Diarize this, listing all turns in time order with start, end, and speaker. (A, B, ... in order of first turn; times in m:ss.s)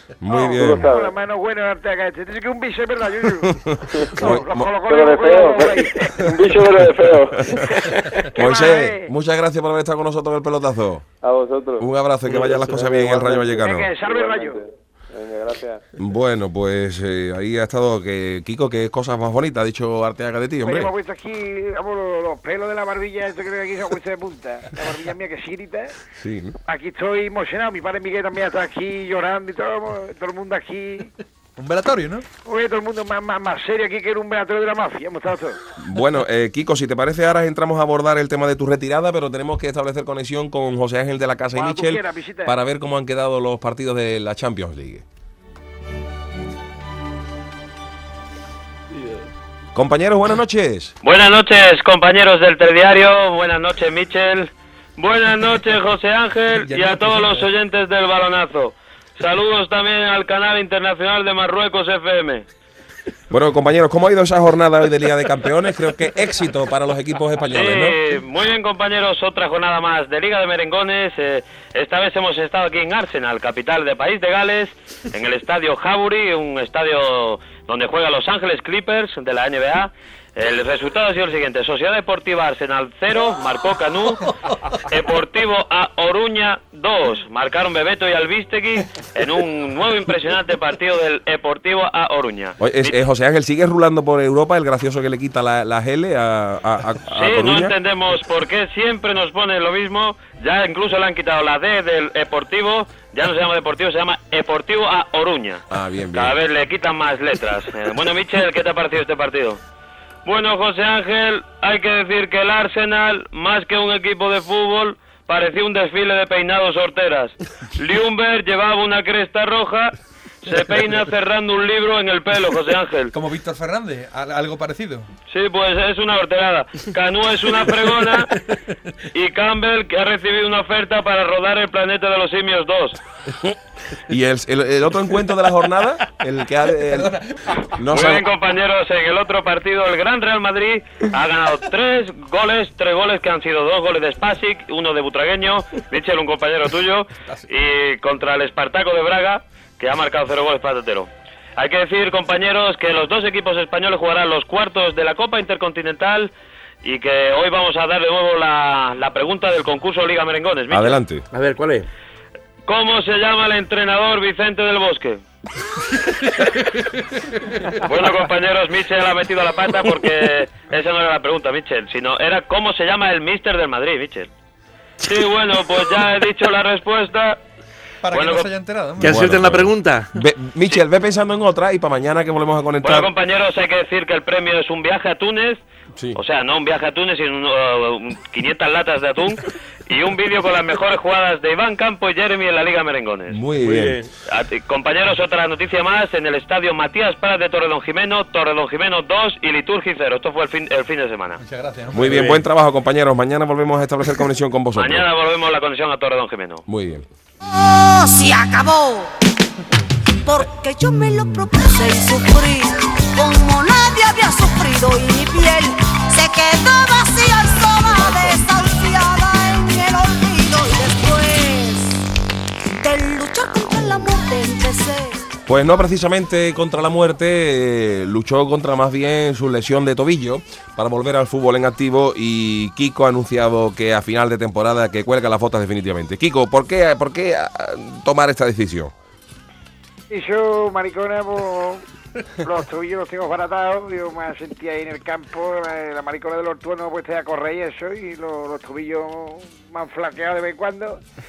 0:00.2-0:00.9 A
0:00.3-0:03.5 B
0:00.5-0:01.1 C
0:03.5-0:04.8 A
0:04.0-0:04.3 C
0:04.2-0:06.2 B
0:04.8-0:08.3 C
0:07.4-0:11.0 A
0:07.8-0:09.1 B
0:11.2-0:15.8 C
0:11.8-0:13.9 A
0:13.6-0:14.6 B
0:16.0-0:20.9 A
0:20.6-0:26.0 B
0:26.2-0:26.6 A
0:26.7-0:31.1 B
0:31.6-0:32.3 D
0:32.4-0:35.6 B
0:35.8-0:45.0 A
0:41.5-0:42.6 B
0:49.8-0:50.9 A
0:51.0-1:02.5 E
0:56.6-0:57.5 D
1:03.3-1:08.0 A
1:07.5-1:33.0 E
1:32.6-1:37.8 A
1:37.1-1:49.6 E
1:45.7-1:46.4 A
1:50.2-2:03.1 E
2:03.1-2:05.1 D
2:05.3-2:08.4 E
2:09.1-2:13.0 E
2:14.1-2:17.2 A
2:16.8-2:17.8 D
2:17.8-2:18.3 A
2:17.9-2:36.3 E
2:36.8-2:41.0 E
2:40.7-2:41.3 A
2:41.3-2:41.9 F
2:42.7-2:45.2 E
2:47.8-2:54.3 E
2:55.0-2:57.4 E
2:58.0-2:59.2 D
2:58.1-2:58.5 E
2:59.0-3:00.1 F
2:59.0-3:03.1 A
3:02.8-3:05.6 E
3:06.2-3:13.4 E
3:13.3-3:14.0 A
3:13.6-3:14.1 F
3:14.3-3:21.4 E
3:21.4-3:22.3 D
3:21.9-3:25.1 A
3:22.0-3:22.4 F
3:24.7-3:26.6 E
3:26.7-3:27.1 A
3:27.5-3:29.1 G
3:30.2-3:42.0 G
3:42.7-3:45.2 G
3:45.5-3:58.9 A
4:00.1-4:01.8 B
4:02.4-4:11.0 B